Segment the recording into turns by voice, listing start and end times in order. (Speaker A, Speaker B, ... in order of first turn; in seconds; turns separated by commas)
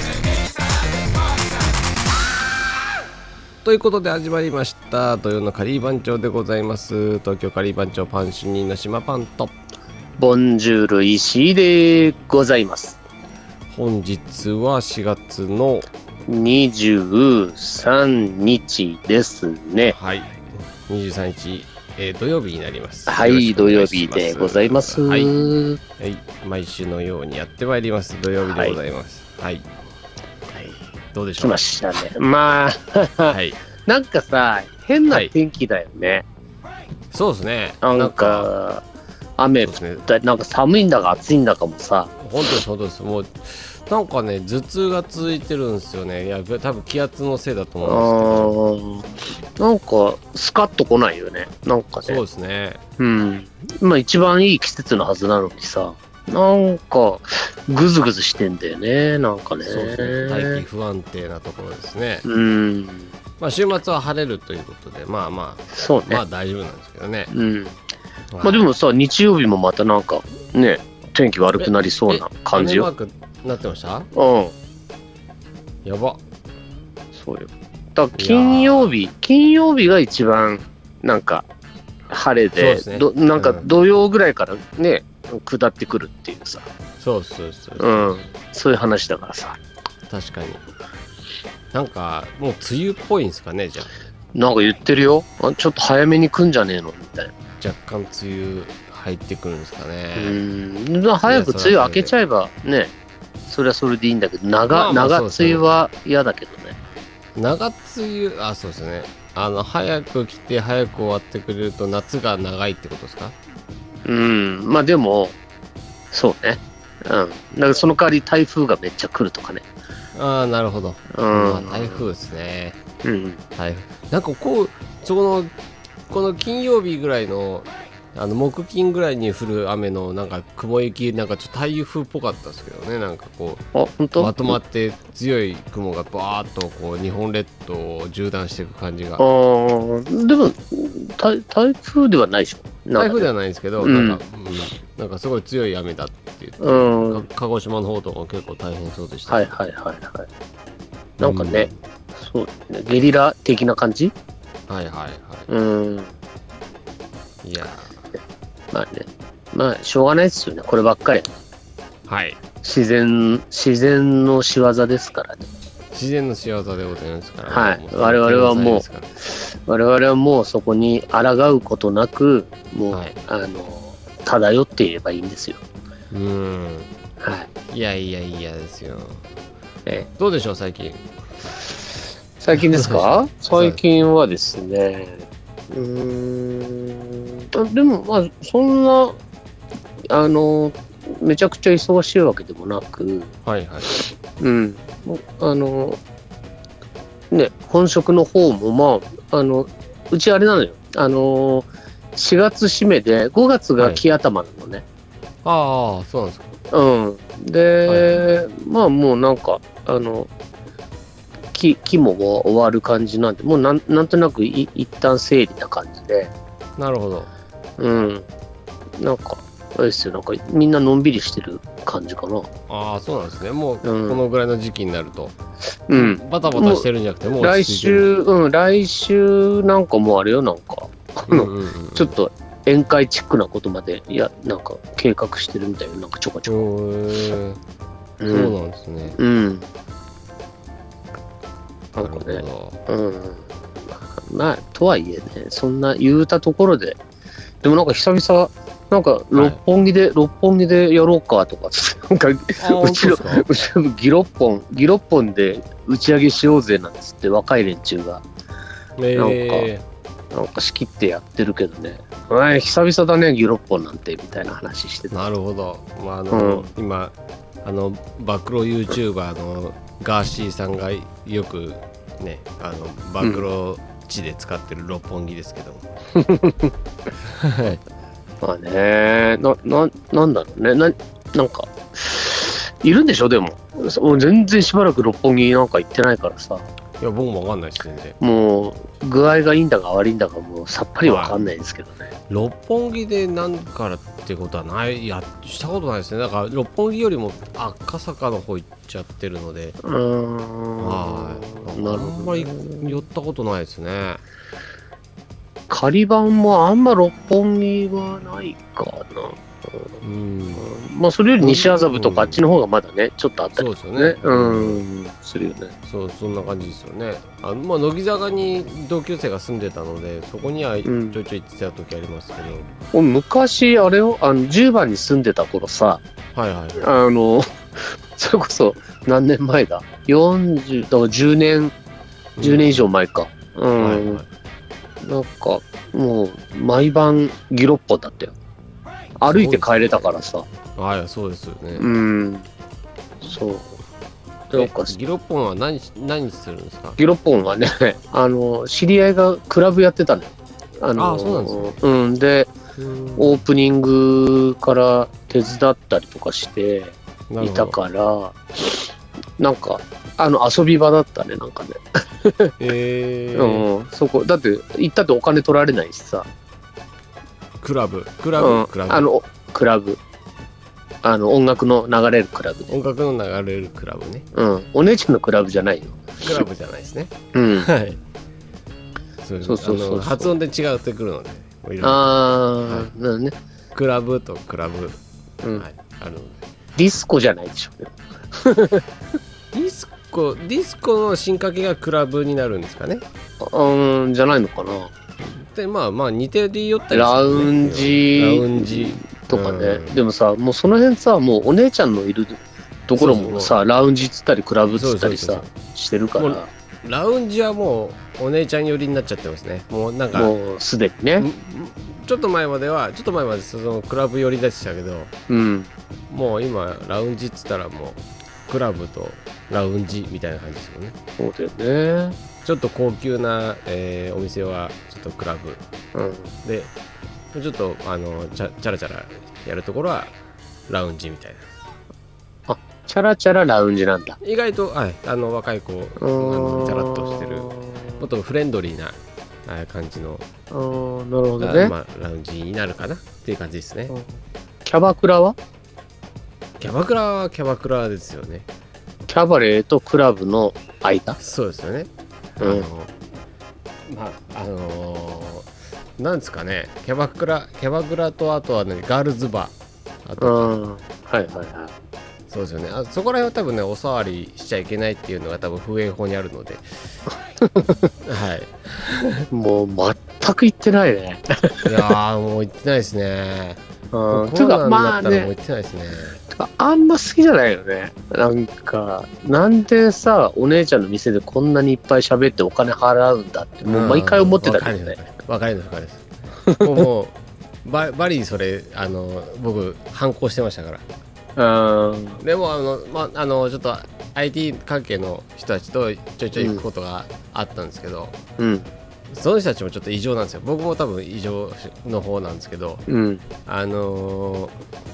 Speaker A: 3.6-9.5, Speaker B: 10.2-13.0, Speaker A: 13.7-15.9, Speaker B: 16.3-19.9, Speaker A: 19.9-25.3, Speaker B: 23.1-25.8, Speaker A: 26.0-29.7, Speaker B: 28.4-28.8, Speaker A: 30.5-31.7, Speaker B: 31.4-36.2, Speaker A: 33.3-33.6, Speaker A: 37.1-38.5, Speaker B: 37.8-38.8, Speaker B: 39.4-42.1, Speaker A: 39.6-40.1, Speaker A: 42.2-48.5, Speaker B: 47.8-52.2, Speaker A: 52.0-52.8, Speaker B: 53.0-60.6, Speaker A: 59.6-62.3, Speaker B: 62.2-63.1, Speaker A: 63.4-67.3, Speaker B: 65.7-66.2, Speaker B: 67.3-67.8, Speaker A: 68.3-68.7, Speaker B: 68.4-72.9, Speaker A: 71.6-74.1, Speaker B: 74.1-74.5, Speaker A: 75.8-76.2, Speaker B: 77.1-81.5, Speaker A: 78.1-79.0, Speaker B: 82.1-86.7, Speaker A: 82.5-83.7, Speaker A: 87.0-88.3, Speaker B: 87.8-89.6, Speaker A: 90.1-90.6, Speaker A: 91.7-93.9, Speaker B: 94.3-97.3, Speaker A: 97.6-100.4, Speaker B: 100.2-102.9, Speaker A: 101.2-102.1, Speaker B: 103.5-106.8, Speaker A: 104.7-105.7, Speaker A: 107.3-113.4, Speaker B: 114.0-115.3, Speaker B: 116.1-119.6, Speaker A: 120.1-122.8, Speaker B: 121.1-122.0, Speaker B: 123.0-123.4, Speaker A: 123.5-125.5, Speaker A: 126.1-133.6, Speaker B: 133.7-134.6, Speaker A: 134.2-139.2, Speaker B: 139.2-143.3, Speaker A: 142.9-149.6, Speaker B: 143.8-144.2, Speaker B: 146.6-147.3, Speaker B: 149.3-150.3, Speaker A: 151.2-151.8, Speaker B: 151.2-154.1, Speaker A: 154.7-155.5, Speaker B: 155.5-156.1, Speaker A: 157.4-157.9, Speaker B: 158.7-161.3, Speaker A: 162.1-162.4, Speaker B: 162.6-165.5, Speaker A: 165.9-169.1, Speaker B: 167.5-175.6, Speaker A: 172.9-173.2, Speaker A: 176.1-176.9, Speaker B: 177.2-177.5, Speaker A: 177.7-179.2, Speaker A: 180.2-181.0, Speaker B: 182.4-189.2, Speaker A: 182.5-183.8, Speaker B: 190.1-193.3, Speaker A: 193.4-193.9, Speaker B: 193.9-196.0, Speaker B: 197.3-204.8, Speaker A: 205.4-206.5, Speaker B: 206.7-210.3, Speaker A: 207.9-208.2, Speaker B: 211.5-216.3, Speaker A: 216.8-217.3, Speaker B: 217.8-218.2, Speaker B: 219.0-222.5, Speaker A: 222.7-225.3, Speaker B: 223.8-224.2, Speaker B: 225.9-226.9, Speaker A: 225.9-228.0, Speaker B: 227.4-236.7, Speaker A: 231.3-232.1, Speaker A: 236.4-237.6, Speaker B: 238.2-238.5, Speaker A: 238.3-239.2, Speaker B: 239.1-239.7, Speaker A: 241.9-242.8, Speaker B: 241.9-243.4, Speaker B: 244.0-247.0, Speaker B: 247.6-258.2, Speaker A: 249.3-249.6, Speaker A: 252.6-253.5, Speaker A: 259.0-259.8, Speaker B: 259.1-259.7, Speaker B: 260.3-265.2, Speaker A: 265.1-275.9, Speaker B: 266.3-266.7, Speaker B: 276.1-276.7, Speaker A: 277.3-277.8, Speaker B: 278.4-286.7, Speaker A: 287.0-288.2, Speaker B: 288.2-292.1, Speaker A: 291.0-291.5, Speaker A: 292.3-299.8, Speaker B: 299.8-302.9, Speaker A: 300.8-304.2, Speaker B: 305.7-309.9, Speaker A: 310.0-310.7, Speaker B: 310.6-315.7, Speaker A: 311.4-312.4, Speaker A: 313.6-314.8, Speaker A: 315.9-322.7, Speaker B: 320.9-321.2, Speaker B: 322.9-326.0, Speaker A: 326.3-326.8, Speaker B: 326.8-331.7, Speaker A: 332.4-332.9, Speaker B: 332.4-334.2, Speaker A: 333.8-334.3, Speaker B: 335.0-338.3, Speaker B: 339.2-340.4, Speaker A: 339.2-340.2, Speaker A: 340.8-341.9, Speaker B: 341.8-342.5, Speaker B: 343.2-343.8, Speaker B: 344.5-344.9, Speaker A: 344.5-347.0, Speaker B: 347.0-352.5, Speaker A: 350.9-351.8, Speaker A: 352.8-353.4, Speaker B: 353.2-362.5, Speaker A: 357.3-357.8, Speaker A: 362.6-363.6, Speaker B: 363.3-366.3, Speaker A: 367.6-369.1, Speaker B: 368.4-370.0, Speaker B: 371.0-372.8, Speaker A: 372.7-374.2, Speaker B: 374.3-376.3, Speaker A: 376.2-378.0, Speaker B: 377.3-377.7, Speaker A: 379.2-382.1, Speaker B: 379.4-380.3, Speaker B: 381.8-383.3, Speaker A: 382.6-382.9, Speaker A: 383.7-385.0, Speaker A: 385.5-386.4, Speaker B: 386.8-388.9, Speaker A: 389.5-393.0, Speaker B: 393.4-394.9, Speaker A: 395.2-400.0, Speaker B: 396.9-406.5, Speaker A: 402.9-403.5, Speaker A: 404.7-405.5, Speaker A: 406.2-410.3, Speaker B: 410.1-411.3, Speaker A: 411.2-415.1, Speaker B: 415.3-415.7, Speaker A: 416.1-420.9, Speaker B: 421.2-422.2, Speaker A: 422.4-425.6, Speaker B: 425.9-426.3, Speaker A: 426.4-426.7, Speaker A: 427.3-430.1, Speaker A: 430.7-431.4, Speaker B: 432.5-434.2, Speaker A: 434.2-440.2, Speaker B: 436.0-438.0, Speaker B: 440.5-441.7, Speaker A: 441.4-443.9, Speaker B: 444.6-445.4, Speaker A: 446.6-448.5, Speaker B: 449.1-451.2, Speaker A: 451.2-452.9, Speaker B: 452.4-452.7, Speaker A: 453.9-459.5, Speaker A: 460.1-460.6, Speaker B: 460.2-461.7, Speaker A: 462.3-466.6, Speaker B: 467.4-467.9, Speaker A: 468.0-469.2, Speaker B: 469.3-471.9, Speaker A: 471.6-476.2, Speaker B: 473.9-475.3, Speaker B: 476.3-485.0, Speaker A: 483.6-486.1, Speaker A: 486.6-490.8, Speaker B: 491.4-492.2, Speaker A: 492.2-498.2, Speaker B: 496.4-496.6, Speaker B: 498.4-498.7, Speaker A: 499.1-502.8, Speaker B: 502.9-503.2, Speaker A: 503.4-504.5